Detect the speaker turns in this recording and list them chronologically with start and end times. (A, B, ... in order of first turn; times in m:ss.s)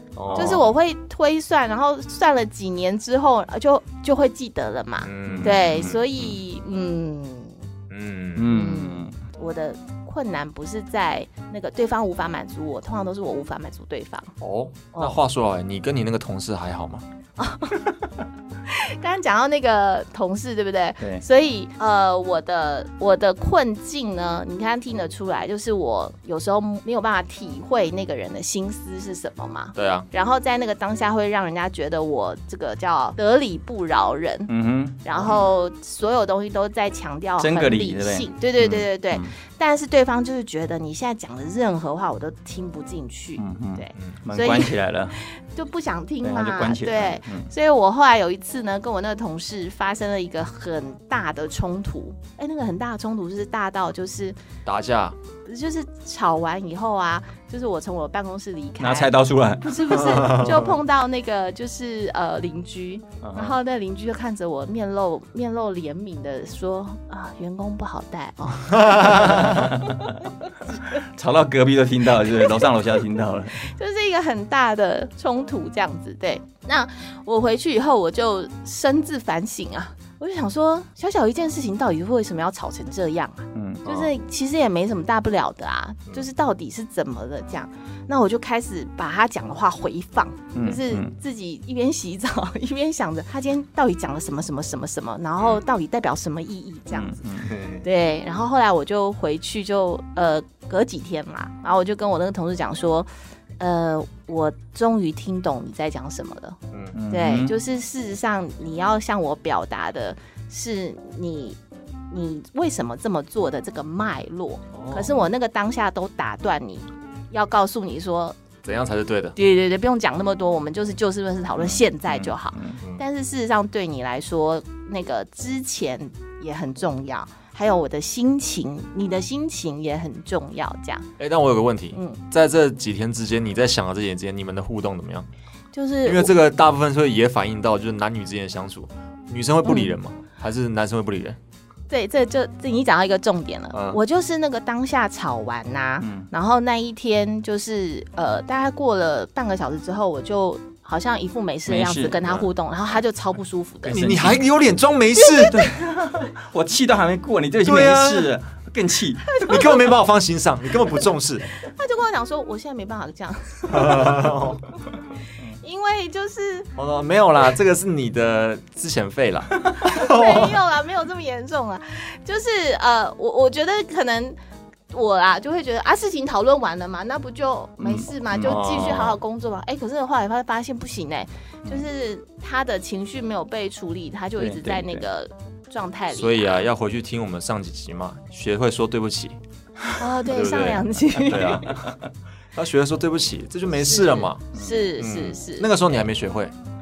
0:00.2-0:00.7 A
0:00.3-0:07.5 B
0:05.0-0:06.4 A
0:05.2-0:06.0 C
0:07.9-0:08.5 A
0:08.4-0:09.2 C
0:08.5-0:14.3 B
0:14.4-0:17.0 A
0:14.9-0:15.2 B
0:17.4-0:17.9 B
0:18.6-0:34.5 B
0:29.7-0:30.1 A
0:34.5-0:35.0 C
0:35.0-0:54.4 B
0:35.1-0:35.5 A
0:37.4-0:39.3 C
0:43.4-0:45.2 C
0:46.2-0:47.5 C
0:54.6-0:55.2 A
0:55.4-1:11.0 B
0:58.8-1:00.0 C
0:59.9-1:00.7 A
1:03.2-1:03.6 C
1:08.7-1:09.6 A
1:09.1-1:10.2 C
1:11.0-1:13.7 C
1:12.3-1:12.7 B
1:13.6-1:37.2 B
1:23.5-1:23.9 C
1:30.5-1:31.1 C
1:36.9-1:37.6 C
1:37.5-1:37.8 A
1:37.8-1:46.6 B
1:46.9-1:47.6 C
1:47.1-1:51.6 B
1:52.1-1:58.4 B
1:54.7-1:55.2 A
1:58.6-1:59.3 A
1:59.4-2:11.0 B
2:02.5-2:02.8 C
2:11.2-2:15.3 A
2:11.9-2:12.2 B
2:15.7-2:16.3 B
2:16.0-2:21.4 A
2:19.6-2:19.9 B
2:21.9-2:34.2 B
2:23.7-2:24.0 A
2:26.0-2:26.3 C
2:31.6-2:32.2 C
2:33.8-2:35.6 A
2:33.9-2:34.4 C
2:35.2-2:36.0 B
2:35.4-2:39.4 C
2:37.6-2:38.3 A
2:39.3-2:39.9 B
2:39.4-2:41.4 A
2:41.6-2:44.4 B
2:43.7-2:44.6 A
2:45.6-2:46.7 B
2:46.8-2:50.6 A
2:49.8-2:54.4 B
2:54.9-3:06.6 B
2:57.8-2:58.6 C
2:58.4-2:59.2 A
3:04.4-3:05.0 C
3:06.1-3:09.4 A
3:10.0-3:11.8 B
3:10.2-3:11.8 A
3:11.3-3:12.0 C
3:12.5-3:14.5 A
3:13.8-3:15.7 B
3:14.5-3:14.9 C
3:15.0-3:16.5 A